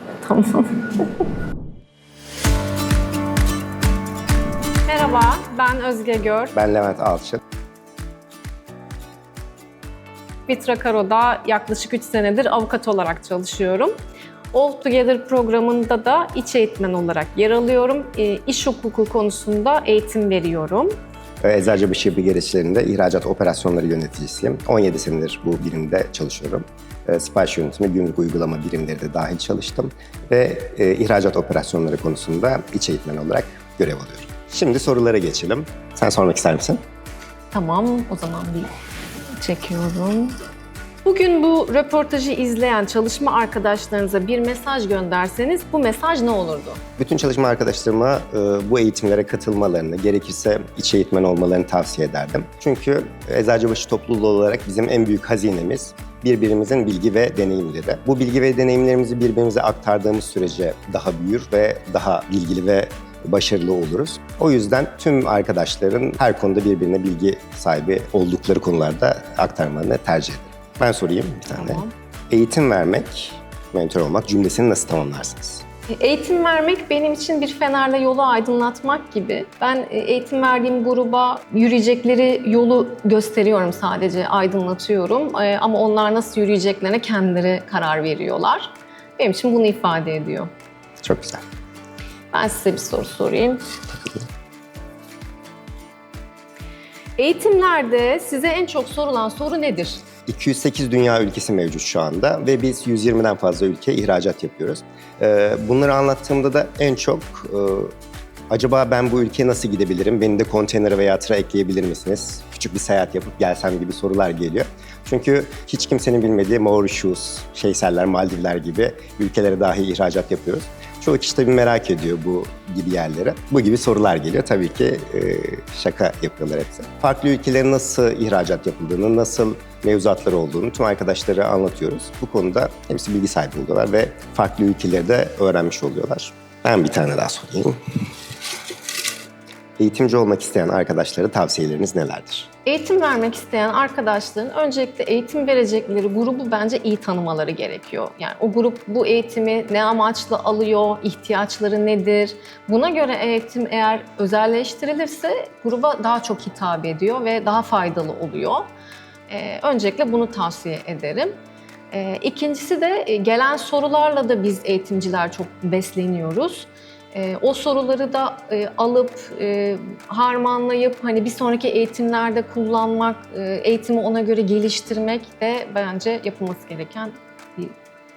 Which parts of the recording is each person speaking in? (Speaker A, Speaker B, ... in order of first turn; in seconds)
Speaker A: 0.2-1.1, 4.9-6.5, 10.5-13.9, 14.5-20.9, 37.5-38.7, 39.3-40.3, 41.0-46.8, 71.6-71.9, 75.9-90.5, 92.3-93.6, 97.2-100.0, 142.7-158.7, 159.3-161.4, 161.9-177.8
Speaker B: 6.5-7.4, 21.4-36.8, 47.0-75.7, 91.0-91.4, 100.3-107.9, 108.5-137.8, 139.8-142.5